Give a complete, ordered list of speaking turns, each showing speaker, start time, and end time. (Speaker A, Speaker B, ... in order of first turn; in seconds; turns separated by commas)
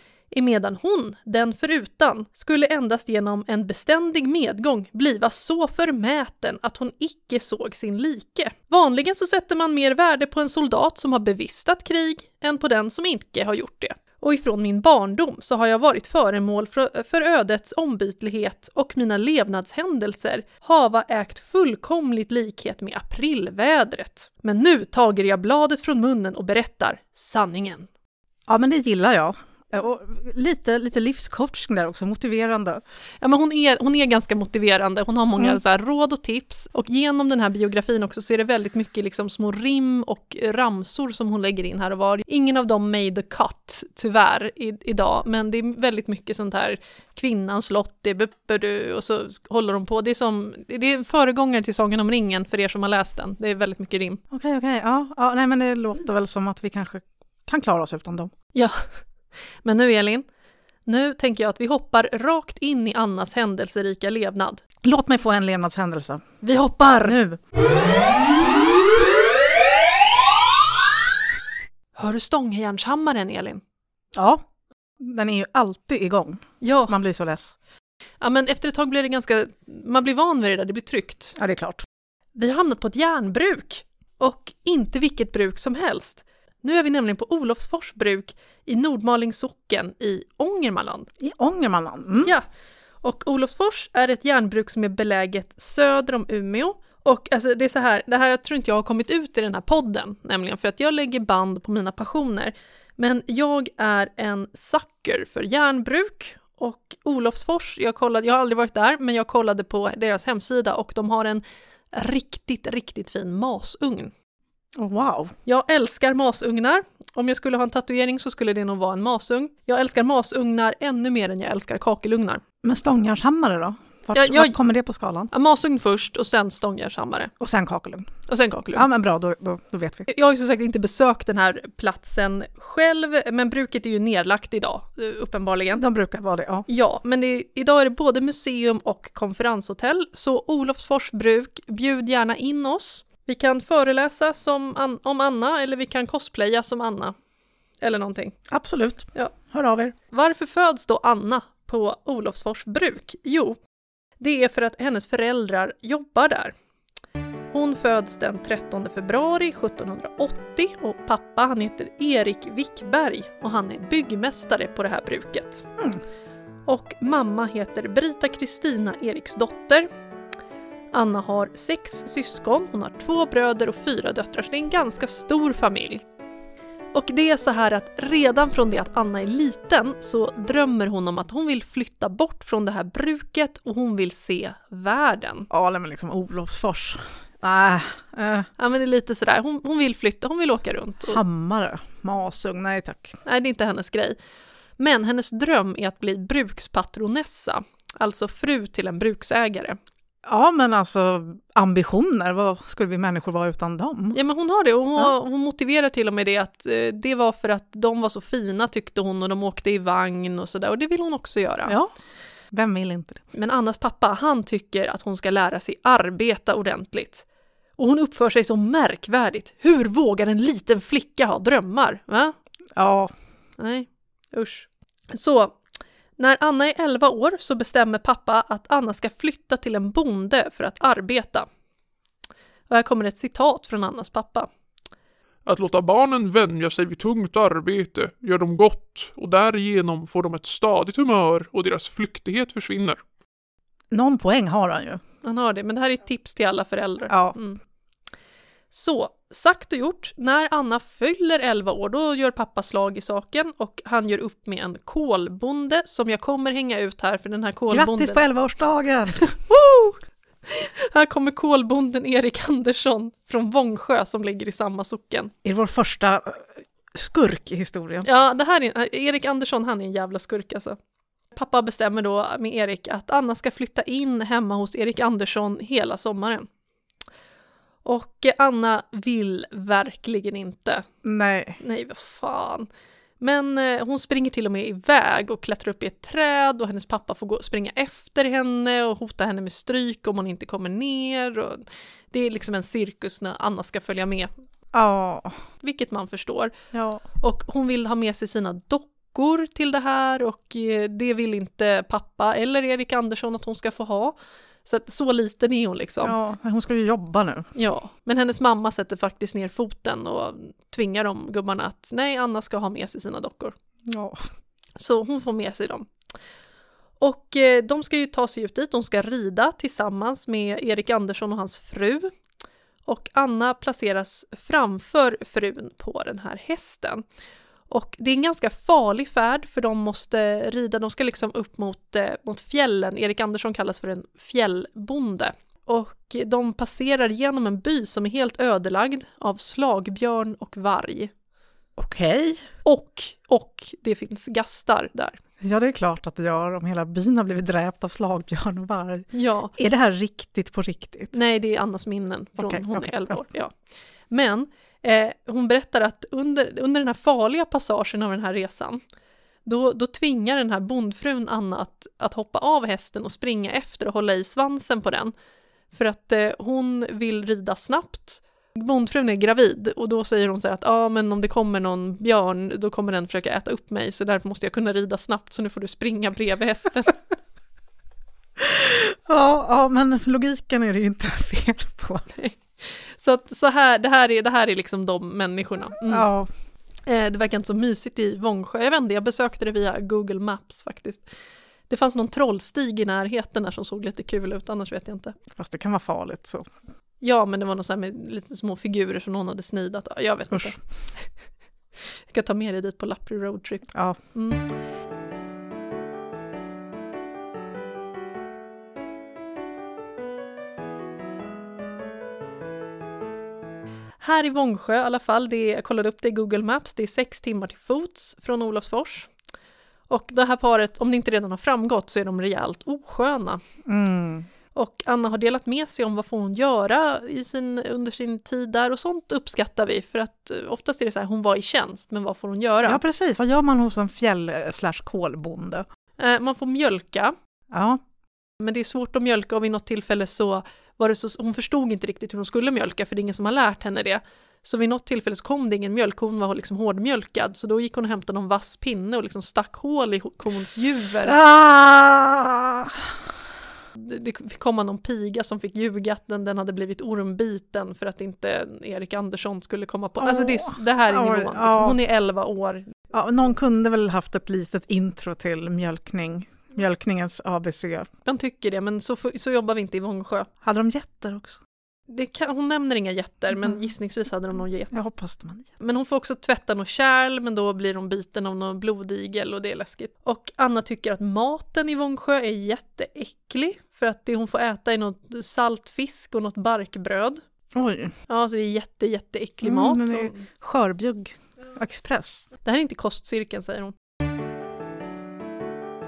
Speaker A: 0.3-27.9, Speaker B: 28.5-32.8, Speaker A: 33.2-54.2, Speaker B: 54.3-58.3, Speaker A: 58.5-58.9, Speaker A: 59.6-60.2, Speaker A: 60.9-64.6, Speaker B: 64.8-66.2, Speaker A: 66.4-67.2, Speaker B: 67.0-67.4, Speaker A: 72.0-73.6, Speaker B: 74.2-74.4, Speaker B: 75.0-77.5, Speaker A: 76.6-76.9, Speaker A: 78.2-81.3, Speaker B: 81.4-81.8, Speaker A: 82.4-91.1, Speaker B: 91.2-92.3, Speaker A: 93.0-114.1, Speaker B: 114.8-115.3, Speaker A: 115.5-122.4, Speaker B: 122.6-125.3, Speaker A: 124.1-124.5, Speaker A: 125.3-127.3, Speaker B: 127.4-128.1, Speaker A: 128.3-128.9, Speaker B: 128.8-130.1, Speaker A: 130.1-135.8, Speaker B: 135.8-136.7, Speaker A: 136.7-147.1, Speaker A: 147.8-148.4, Speaker B: 148.5-149.9, Speaker A: 150.1-153.6, Speaker A: 154.2-156.6, Speaker A: 157.5-165.7, Speaker A: 166.7-169.9, Speaker A: 170.9-176.0, Speaker A: 176.9-185.5, Speaker B: 185.5-188.5, Speaker A: 188.6-191.2, Speaker B: 191.1-193.2, Speaker A: 193.2-194.2, Speaker A: 194.8-199.8, Speaker B: 200.2-204.2, Speaker A: 204.1-211.8, Speaker B: 211.7-211.9, Speaker B: 212.5-213.2, Speaker A: 213.3-217.2, Speaker A: 217.8-222.3, Speaker B: 222.8-223.1, Speaker A: 223.6-225.6, Speaker A: 226.2-231.5, Speaker A: 232.7-234.5, Speaker C: 235.5-243.0, Speaker B: 243.9-245.0, Speaker A: 245.2-247.6, Speaker B: 247.1-247.4, Speaker A: 248.7-258.2, Speaker B: 257.7-259.2, Speaker A: 259.2-265.3, Speaker B: 265.4-268.1, Speaker A: 268.1-270.8, Speaker A: 271.3-276.5, Speaker A: 277.9-280.9, Speaker B: 281.0-281.6, Speaker A: 281.6-282.7, Speaker A: 283.2-294.3, Speaker B: 294.7-295.4, Speaker A: 295.6-296.5, Speaker B: 296.7-297.0, Speaker A: 297.2-304.1, Speaker A: 304.7-306.2, Speaker B: 306.0-307.5, Speaker A: 307.6-313.5, Speaker B: 313.9-314.2, Speaker A: 314.8-315.9, Speaker A: 317.0-322.1, Speaker A: 322.9-327.0, Speaker A: 327.7-341.1, Speaker B: 341.8-342.4, Speaker A: 342.6-345.2, Speaker B: 345.4-351.1, Speaker A: 349.1-349.5, Speaker A: 351.1-353.6, Speaker B: 352.4-353.2, Speaker A: 354.1-358.8, Speaker A: 359.4-365.1, Speaker A: 365.7-377.0, Speaker B: 378.4-382.1, Speaker A: 382.1-386.1, Speaker B: 385.9-386.3, Speaker A: 386.9-391.1, Speaker A: 391.7-395.2, Speaker B: 395.3-396.5, Speaker A: 397.0-401.1, Speaker A: 401.8-404.4, Speaker A: 414.0-419.1, Speaker A: 419.9-423.4, Speaker B: 423.6-424.3, Speaker A: 424.5-432.8, Speaker B: 432.6-435.6, Speaker A: 436.0-437.1, Speaker B: 437.5-437.8, Speaker A: 438.4-451.2, Speaker B: 451.1-453.0, Speaker A: 453.8-462.7, Speaker B: 460.0-461.8, Speaker B: 462.9-467.9, Speaker A: 468.1-470.3, Speaker B: 470.4-471.4, Speaker A: 471.9-474.8, Speaker B: 474.7-475.5, Speaker A: 475.6-487.2, Speaker B: 487.5-487.9, Speaker A: 488.1-490.2, Speaker B: 489.4-492.3, Speaker A: 492.4-493.7